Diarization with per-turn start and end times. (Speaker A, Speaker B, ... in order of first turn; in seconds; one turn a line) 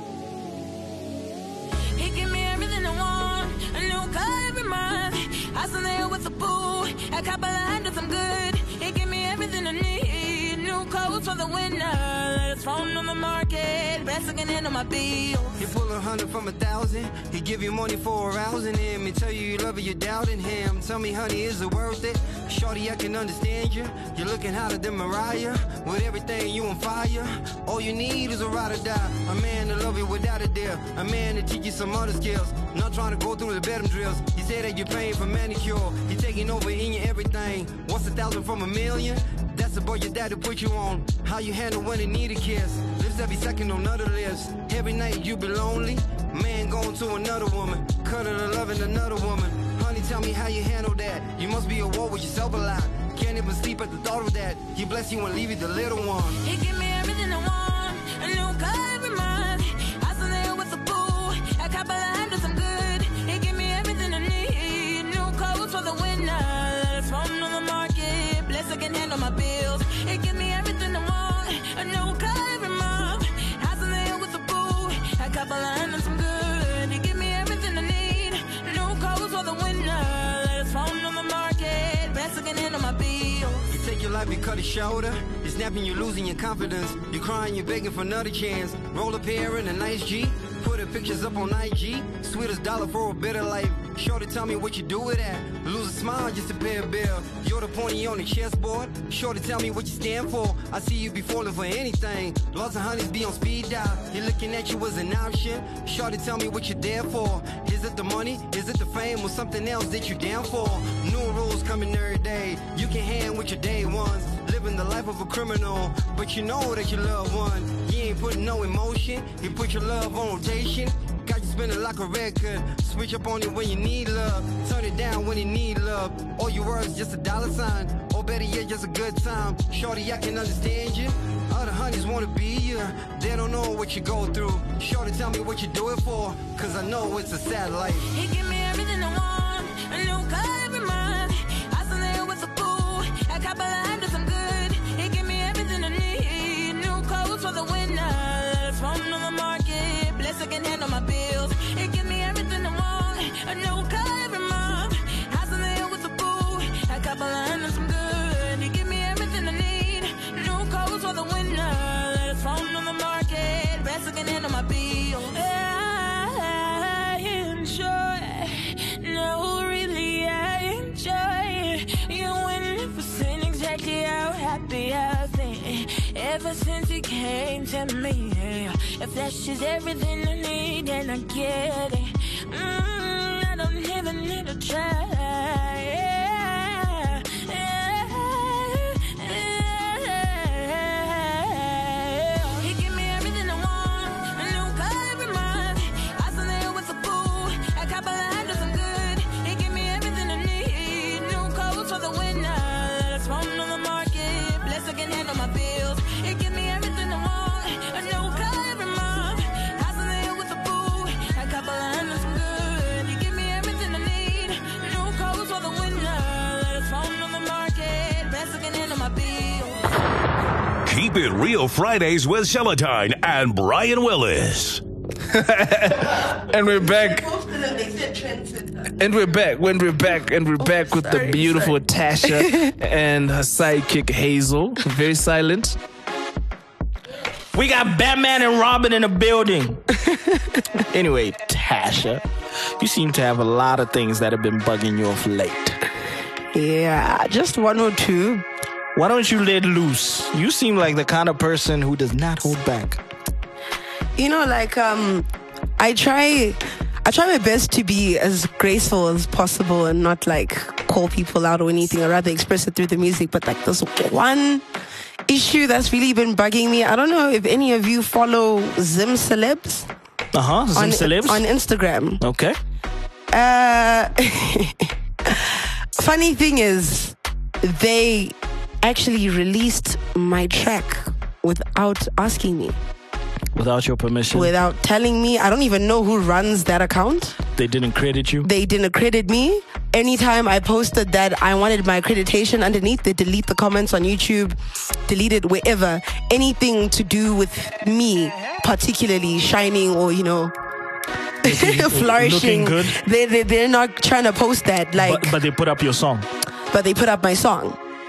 Speaker A: 2.0-15.6
Speaker B: 15.6-56.4
Speaker A: 56.4-83.7
Speaker B: 83.7-138.1
Speaker A: 138.1-219.9
Speaker C: 220.8-224.8
Speaker D: 225.3-227.3
Speaker E: 226.7-228.9
Speaker D: 229.0-235.8
Speaker E: 230.6-232.7
Speaker F: 237.5-239.8
Speaker E: 240.0-240.6
Speaker F: 240.9-242.2
Speaker F: 242.8-245.8
Speaker E: 246.5-248.4
Speaker F: 248.9-253.0
Speaker E: 254.2-255.3
Speaker E: 255.8-264.6
Speaker E: 265.3-269.9
Speaker F: 270.3-271.4
Speaker E: 270.7-272.2
Speaker F: 272.2-272.6
Speaker E: 273.3-282.8
Speaker F: 283.6-284.5
Speaker E: 284.3-287.4
Speaker F: 287.6-288.5
Speaker E: 288.4-300.5
Speaker E: 301.4-305.4
Speaker F: 301.4-303.0
Speaker F: 305.0-306.3
Speaker E: 306.7-307.8